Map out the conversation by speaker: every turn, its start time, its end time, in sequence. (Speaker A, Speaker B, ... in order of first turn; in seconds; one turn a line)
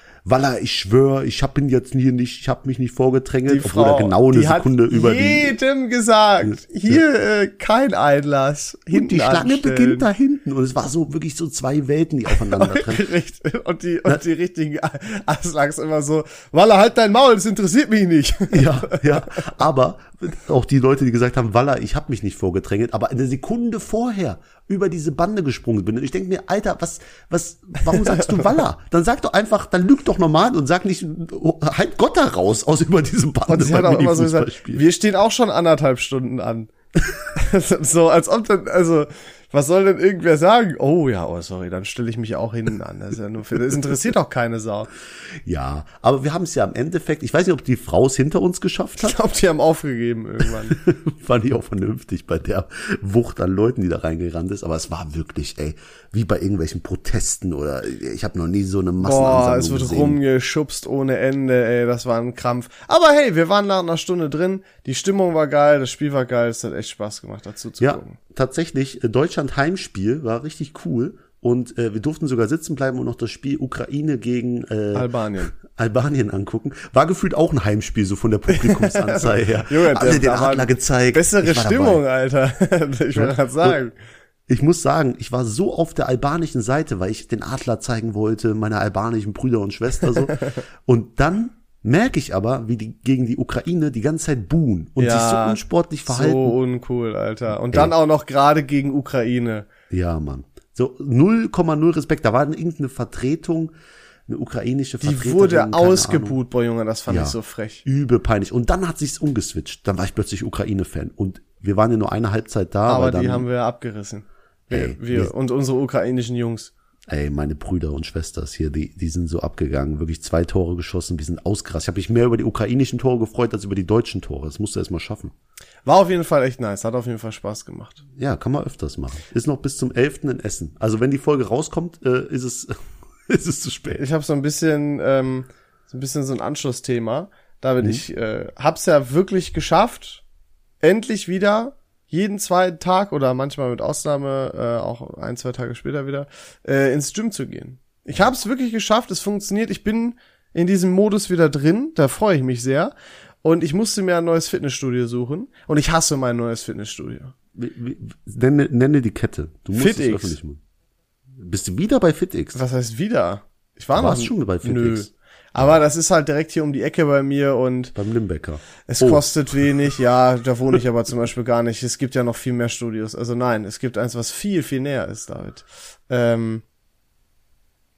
Speaker A: 0.2-5.5
Speaker B: 3.5-10.1
Speaker A: 6.4-7.0
Speaker A: 8.9-13.1
Speaker B: 12.3-19.5
Speaker A: 18.5-34.8
Speaker B: 27.9-28.5
Speaker B: 33.5-36.7
Speaker B: 37.3-44.9
Speaker A: 45.2-49.2
Speaker B: 49.0-50.8
Speaker A: 50.7-60.2
Speaker B: 59.0-68.2
Speaker A: 67.8-82.0
Speaker B: 74.9-75.5
Speaker B: 78.5-83.9
Speaker A: 83.1-83.8
Speaker A: 84.5-96.5
Speaker B: 90.0-90.6
Speaker B: 95.0-99.7
Speaker A: 99.9-103.7
Speaker A: 104.3-106.4
Speaker B: 105.0-107.8
Speaker A: 107.1-113.5
Speaker B: 112.8-116.7
Speaker A: 114.7-115.3
Speaker A: 117.1-125.3
Speaker B: 125.8-128.0
Speaker A: 128.2-132.7
Speaker A: 133.3-134.0
Speaker B: 133.9-140.2
Speaker B: 140.8-152.9
Speaker B: 153.4-157.3
Speaker A: 157.5-160.6
Speaker B: 159.7-160.4
Speaker A: 161.3-162.6
Speaker B: 162.5-167.9
Speaker A: 163.9-165.8
Speaker A: 167.9-169.3
Speaker B: 168.9-176.6